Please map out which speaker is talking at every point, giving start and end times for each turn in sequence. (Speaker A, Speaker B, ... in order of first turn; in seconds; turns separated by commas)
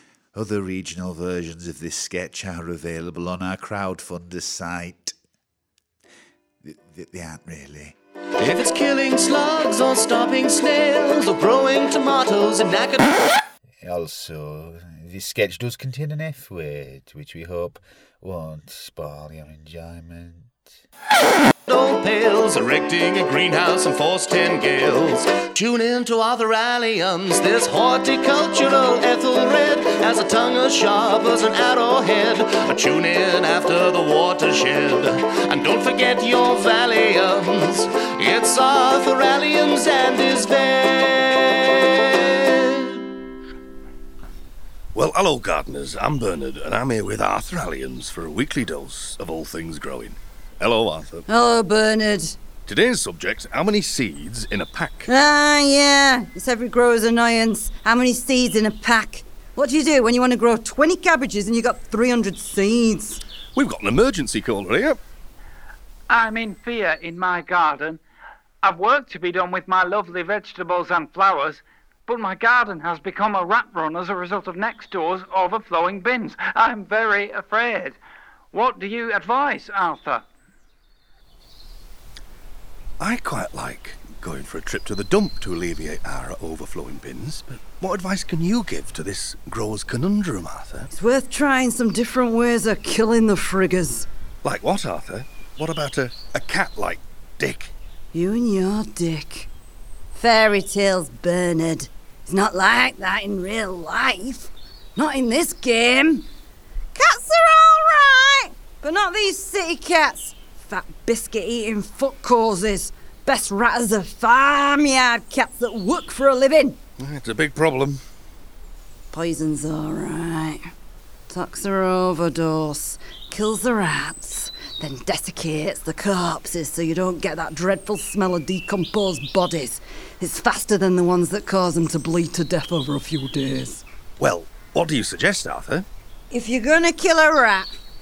Speaker A: 0.3-5.2, Speaker A: 6.6-7.9, Speaker B: 8.4-13.2, Speaker A: 13.8-20.6, Speaker B: 21.7-43.0, Speaker C: 44.9-51.2, Speaker D: 51.3-52.4, Speaker C: 52.7-55.1, Speaker D: 55.0-63.2, Speaker C: 63.5-65.0, Speaker E: 66.1-68.0, Speaker E: 68.6-78.0, Speaker E: 78.5-80.2, Speaker C: 83.0-90.9, Speaker D: 90.9-94.1, Speaker C: 94.4-97.7, Speaker D: 98.1-99.5, Speaker D: 100.1-106.2, Speaker D: 106.9-116.8, Speaker C: 117.0-118.0, Speaker D: 119.1-120.7, Speaker D: 121.3-133.8, Speaker C: 134.2-135.8, Speaker D: 136.3-137.7